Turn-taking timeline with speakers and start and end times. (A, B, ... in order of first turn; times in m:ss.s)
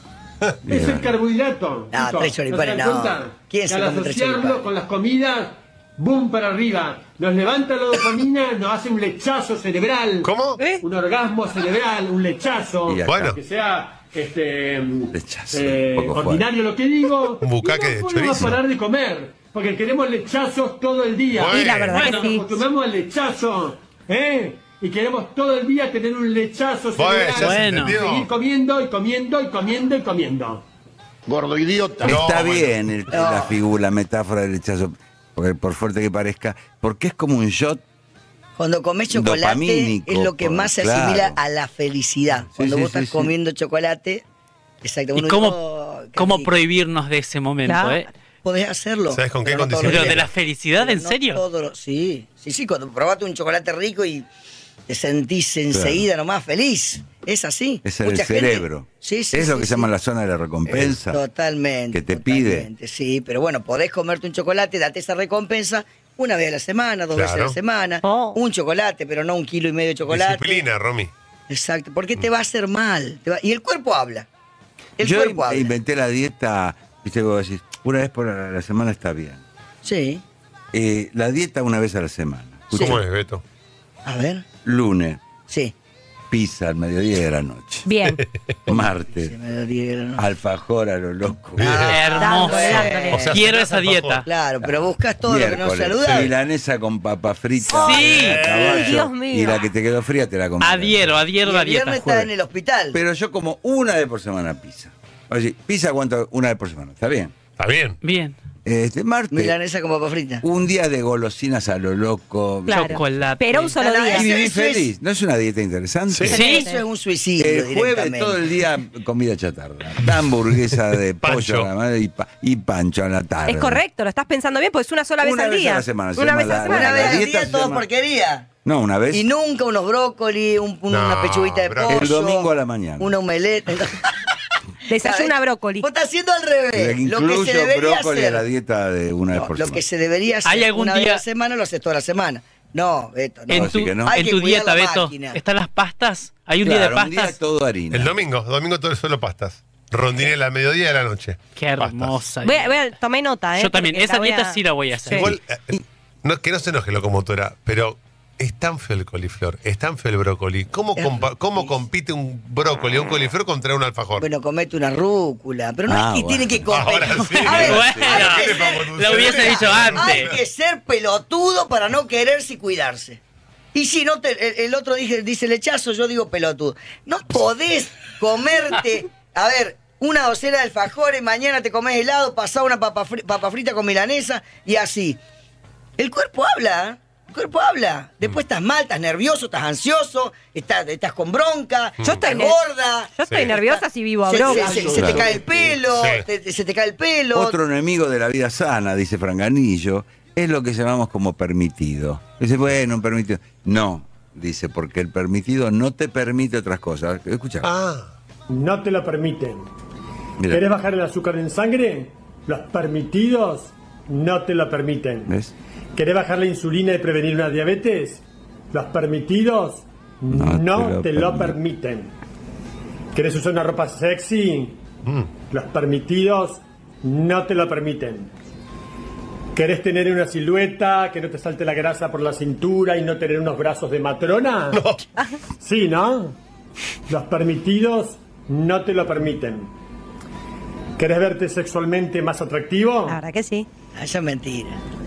0:00.7-0:01.1 A
0:00.7-0:30.6 B
0:01.9-0:04.7 C
0:10.2-0:10.6 D
0:12.9-0:13.4 A
0:13.1-0:13.4 D
0:15.1-0:16.5 A
0:17.4-0:18.6 D
0:21.3-0:22.0 D
0:21.5-0:22.6 E
0:21.9-0:22.4 F
0:27.0-0:28.3 D
0:27.4-0:28.0 F
0:31.3-0:32.3 G
0:32.0-0:32.7 D
0:32.0-0:37.8 A
0:33.1-0:33.6 C
0:38.6-0:44.2 C
0:39.1-0:41.4 A
0:42.5-0:43.3 A
0:44.8-0:46.6 C
0:45.2-0:45.6 F
0:46.1-0:48.1 F
0:47.6-0:48.0 E
0:48.4-0:54.3 C
0:49.1-0:50.3 D
0:49.8-0:51.4 F
0:54.9-0:59.9 C
0:55.7-0:56.0 A
0:57.8-1:01.2 A
1:01.0-1:10.7 C
1:01.9-1:02.7 A
1:07.1-1:07.6 D
1:08.0-1:08.4 E
1:10.1-1:11.1 D
1:11.5-1:14.3 C
1:15.0-1:15.7 C
1:15.0-1:19.4 A
1:19.8-1:20.2 C
1:20.7-1:23.0 A
1:22.7-1:23.0 C
1:22.7-1:23.4 D
1:24.0-1:24.4 C
1:24.6-1:25.2 A
1:25.5-1:25.7 C
1:26.3-1:27.9 A
1:27.9-1:28.2 E
1:28.7-1:29.3 A
1:28.7-1:30.2 C
1:30.2-1:31.9 A
1:31.6-1:32.0 D
1:31.6-1:33.4 C
1:31.7-1:34.3 F
1:32.2-1:33.3 E
1:33.1-1:34.2 D
1:34.3-1:36.3 C
1:34.6-1:41.2 A
1:37.7-1:39.6 E
1:37.8-1:38.4 F
1:38.2-1:38.9 D
1:40.6-1:42.3 F
1:41.4-1:43.0 C
1:42.9-1:47.4 A
1:47.6-1:48.0 D
1:48.0-1:48.4 F
1:48.6-1:49.6 A
1:49.3-1:50.4 C
1:50.4-1:53.0 A
1:52.7-1:54.3 E
1:52.7-1:53.8 F
1:53.8-1:54.9 C
1:54.0-1:56.4 A
1:56.1-1:56.4 D
1:56.3-1:56.7 F
1:56.3-1:56.8 E
1:56.3-1:58.4 C
1:57.4-2:03.8 A
2:01.2-2:01.7 D
2:03.5-2:07.3 E
2:05.2-2:07.8 A
2:06.6-2:08.5 C
2:08.6-2:09.3 A
2:09.1-2:14.2 C
2:10.9-2:12.1 D
2:11.9-2:13.1 A
2:14.9-2:15.9 E
2:15.0-2:18.4 C
2:16.7-2:19.8 A
2:19.3-2:25.4 C
2:20.5-2:21.2 F
2:23.5-2:27.4 F
2:23.5-2:24.2 A
2:26.6-2:28.2 A
2:27.9-2:32.2 D
2:31.6-2:32.9 F
2:32.4-2:35.3 E
2:33.6-2:35.3 F
2:35.1-2:35.7 D
2:36.2-2:44.3 D
2:41.0-2:41.8 C
2:44.2-2:53.2 C
2:45.9-2:48.2 A
2:46.7-2:50.4 D
2:47.4-2:50.3 F
2:53.7-3:05.2 C
3:06.0-3:17.6 C
3:12.0-3:12.6 E
3:13.2-3:15.0 E
3:13.3-3:13.6 D
3:14.5-3:15.8 G
3:15.0-3:15.3 A
3:15.9-3:16.2 D
3:17.3-3:27.7 A
3:27.6-3:28.1 D
3:28.5-3:29.7 B
3:30.4-3:30.6 A
3:30.4-3:35.3 B
3:35.3-3:35.5 A
3:36.0-3:42.1 B
3:40.3-3:41.6 A
3:43.1-3:44.8 B
3:45.5-3:48.3 B
3:49.6-3:54.8 B
3:54.7-3:55.0 D
3:55.6-3:56.4 B
3:57.1-3:59.7 B
4:01.0-4:03.2 B
4:03.1-4:03.7 E
4:04.0-4:04.8 C